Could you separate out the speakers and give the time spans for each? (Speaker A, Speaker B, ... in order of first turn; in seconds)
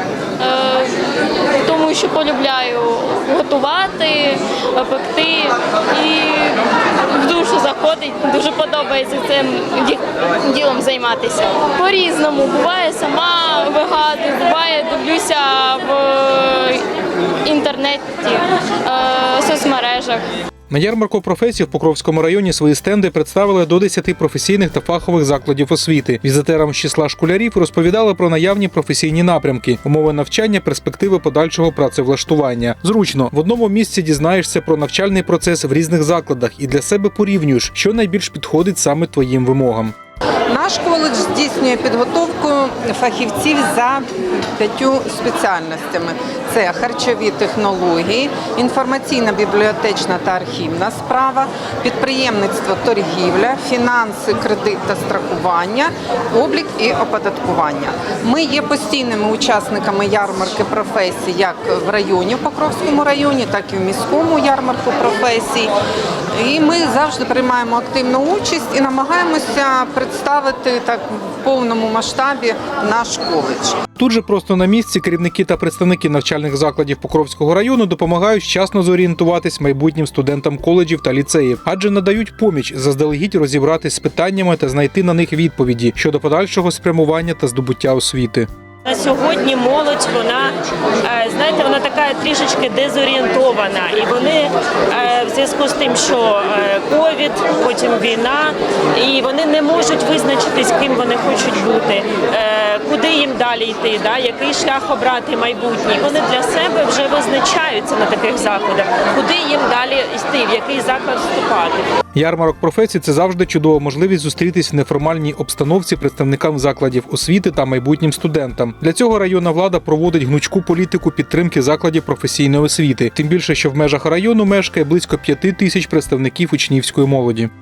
Speaker A: 0.4-1.0, 1.6-16.8, 17.4-20.2
Speaker B: 20.7-39.9, 74.0-88.5, 112.1-127.5
Speaker C: 40.5-44.0, 44.5-65.7, 66.3-73.8
Speaker D: 88.8-111.9